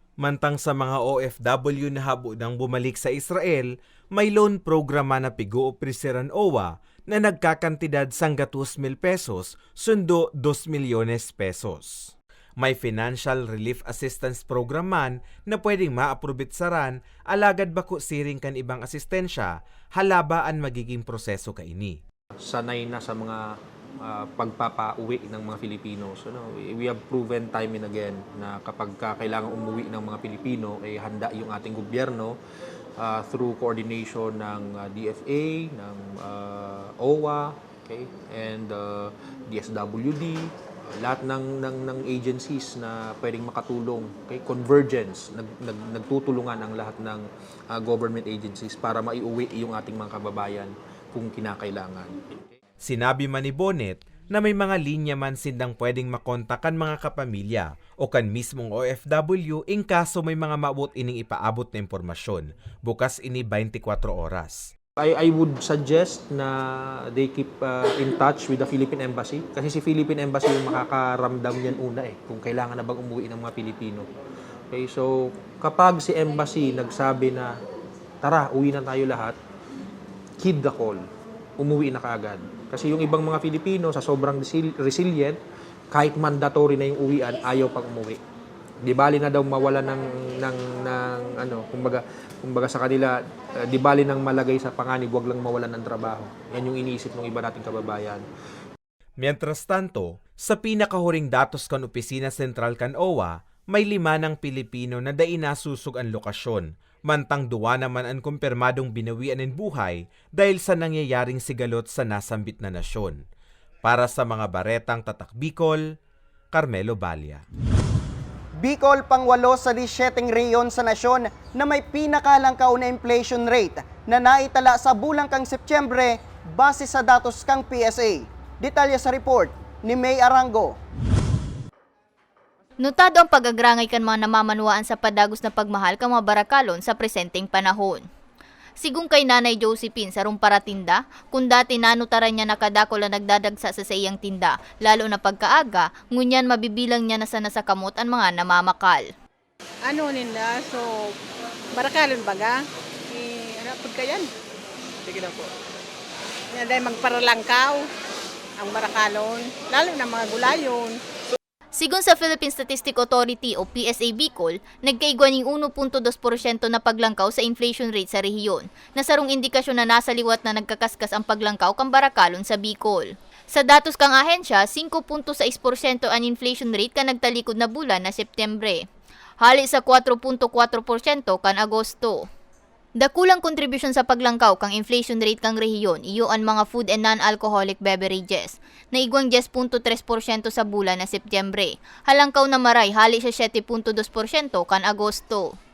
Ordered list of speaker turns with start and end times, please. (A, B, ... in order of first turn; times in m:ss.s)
0:00.2-0:22.0 A
0:22.4-0:23.5 B
0:24.0-0:32.4 B
0:33.0-0:52.5 B
0:52.8-1:04.7 A
1:05.0-1:14.1 B
1:14.7-1:17.6 B
1:18.2-1:19.4 B
1:20.4-1:21.0 B
1:21.6-1:25.4 B
1:25.9-1:28.2 B
1:28.8-1:38.2 B
1:39.2-1:53.2 A
1:53.8-1:55.9 A
1:56.5-1:57.4 A
1:58.6-2:10.8 C
2:12.8-2:18.0 D
2:18.8-2:29.1 D
2:29.9-2:31.1 E
2:31.8-2:32.6 E
2:33.1-2:34.3 E
2:35.1-2:35.5 E
2:36.5-2:37.8 E
2:38.6-2:41.0 E
2:41.8-2:58.9 D
2:59.4-3:02.3 D
3:03.0-3:15.6 D